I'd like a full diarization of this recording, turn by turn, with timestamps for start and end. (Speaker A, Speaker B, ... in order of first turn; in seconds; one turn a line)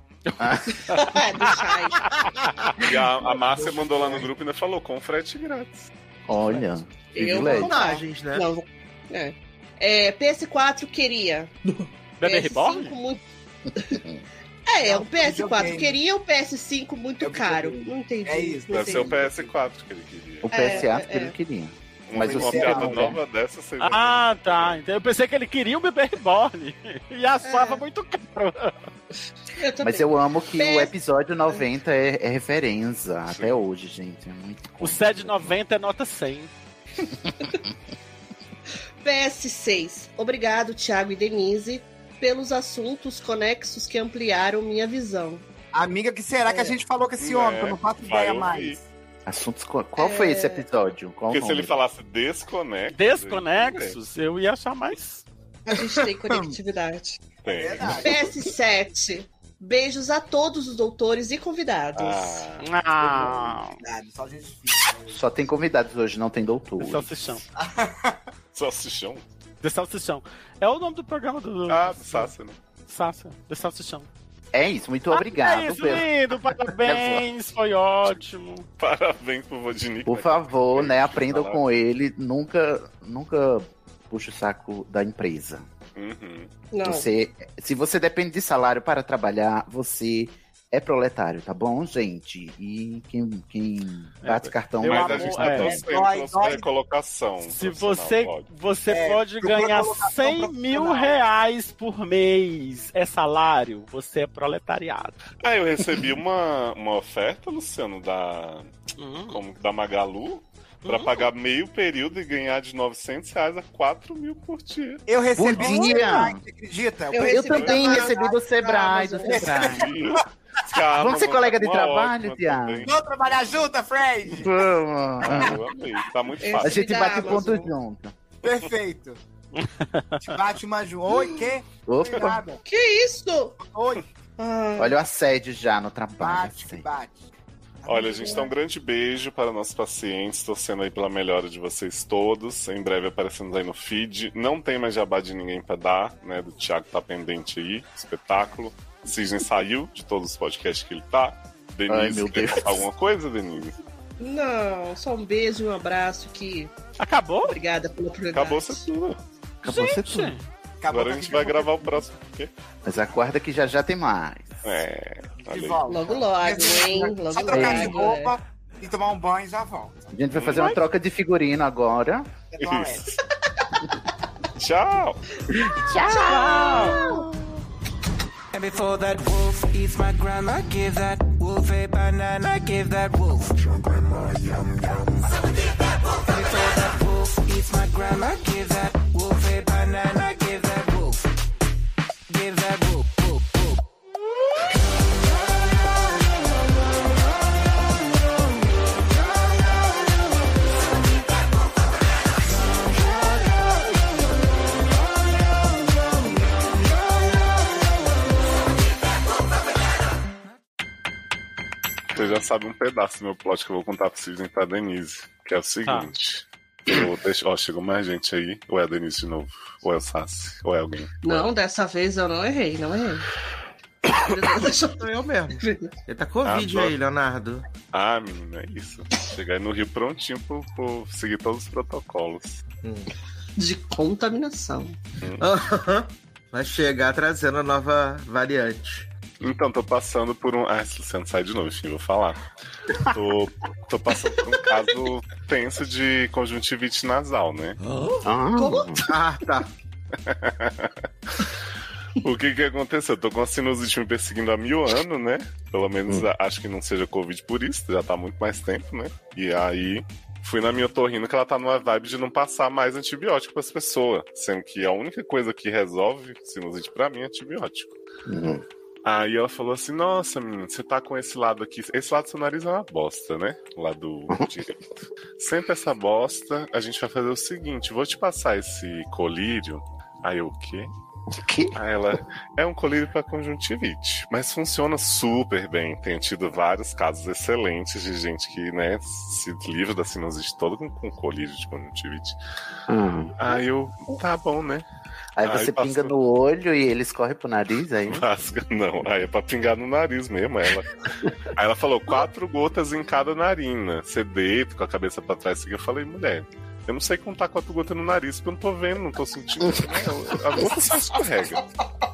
Speaker A: 0.4-0.8
Speaker B: 0.9-2.4
Speaker C: 2.4-2.7
Speaker D: 2.8-5.9
Speaker E: 3.5-4.3
Speaker A: 6.3-7.8
Speaker B: 7.1-13.2
Speaker F: 7.5-8.5
Speaker C: 12.2-13.0
Speaker A: 13.9-14.2
Speaker B: 14.7-19.2
Speaker E: 14.8-16.0
Speaker E: 17.2-19.5
Speaker D: 18.7-20.8
Speaker A: 20.4-23.2
Speaker B: 20.5-21.4
Speaker D: 22.1-24.8
Speaker E: 22.1-23.2
Speaker C: 23.8-28.7
Speaker B: 27.4-27.8
Speaker B: 29.6-30.9
Speaker A: 29.8-35.6
Speaker D: 33.3-33.5
Speaker C: 34.8-36.5
Speaker B: 39.0-45.5
Speaker E: 45.7-48.9
Speaker B: 46.5-46.8
Speaker D: 47.2-48.8
Speaker A: 49.3-51.8
Speaker B: 50.0-50.6
Speaker D: 51.3-54.0
Speaker C: 52.9-55.2
Speaker B: 55.7-57.2
Speaker E: 55.8-56.5
Speaker D: 57.4-58.1
Speaker E: 57.5-58.4
Speaker B: 58.0-62.5
Speaker D: 62.0-62.7
Speaker C: 62.6-63.8
Speaker E: 63.1-65.2
Speaker A: 65.1-67.1
Speaker C: 66.8-67.4
Speaker E: 67.6-68.2
Speaker D: 68.5-69.2
Speaker C: 69.6-72.3
Speaker D: 71.7-72.6
Speaker C: 72.9-74.1
Speaker A: 74.5-76.1
Speaker C: 75.1-78.7
Speaker A: 76.8-77.2
Speaker D: 78.8-81.6
Speaker A: 80.0-85.7
Speaker D: 86.0-86.5
Speaker B: 86.7-87.1
Speaker A: 86.8-95.8
Speaker C: 94.2-95.8
Speaker D: 94.8-98.5
Speaker E: 95.5-96.7
Speaker C: 97.5-105.2
Speaker E: 98.9-101.1
Speaker D: 105.4-108.7
Speaker C: 109.0-109.4
Speaker D: 109.3-115.0
Speaker C: 110.8-111.2
Speaker E: 115.1-118.2
Speaker A: 115.4-116.4
Speaker B: 115.6-115.9
Speaker B: 117.1-119.5
Speaker A: 117.3-120.0
Speaker E: 119.2-120.2
Speaker D: 119.6-122.9
Speaker A: 121.0-122.9
Speaker E: 122.9-124.7
Speaker A: 124.3-125.6
Speaker D: 125.2-126.8
Speaker E: 125.2-125.5
Speaker B: 126.4-127.7
Speaker A: 126.6-128.1
Speaker E: 128.4-129.2
Speaker C: 129.6-130.2
Speaker E: 130.2-132.6
Speaker B: 131.1-131.4
Speaker A: 131.9-132.4
Speaker B: 132.7-133.6
Speaker E: 133.6-134.1
Speaker B: 134.4-135.0
Speaker A: 134.8-136.8
Speaker E: 136.2-137.3
Speaker E: 137.8-138.5
Speaker D: 137.9-153.8
Speaker A: 151.9-152.9
Speaker B: 154.2-156.7
Speaker C: 157.0-157.6
Speaker B: 157.4-158.8
Speaker D: 158.3-159.2
Speaker A: 159.6-160.4
Speaker C: 159.7-160.4
Speaker E: 160.8-162.1
Speaker D: 160.9-162.5
Speaker A: 162.8-164.7
Speaker D: 164.6-165.8
Speaker E: 165.5-170.1
Speaker B: 165.9-168.3
Speaker A: 167.5-168.1
Speaker A: 170.1-172.3
Speaker D: 170.3-170.7
Speaker C: 170.5-170.8
Speaker E: 172.5-173.2
Speaker D: 172.6-173.1
Speaker D: 174.6-175.2
Speaker A: 175.5-177.1
Speaker B: 176.0-177.3
Speaker C: 176.2-177.1
Speaker G: 178.5-185.0
Speaker G: 186.2-191.3
Speaker G: 192.3-193.8
Speaker D: 212.1-221.5
Speaker C: 215.9-216.1
Speaker B: 221.2-223.3
Speaker B: 224.1-225.1
Speaker F: 225.0-227.6
Speaker B: 225.6-225.9
Speaker D: 226.4-226.9
Speaker D: 227.9-232.6
Speaker F: 232.8-233.1
Speaker B: 233.6-235.0
Speaker F: 235.4-239.1
Speaker D: 239.4-247.8
Speaker A: 248.2-249.1
Speaker B: 248.6-249.1
Speaker F: 249.1-249.7
Speaker D: 250.2-250.9
Speaker D: 252.2-268.0
Speaker A: 268.3-268.6
Speaker D: 269.0-274.9
Speaker D: 275.4-280.9
Speaker A: 281.3-281.8
Speaker D: 281.8-292.4
Speaker A: 292.9-293.4
Speaker D: 293.4-294.9
Speaker A: 295.4-298.2
Speaker D: 295.4-296.1
Speaker D: 298.1-311.6
Speaker A: 309.6-309.9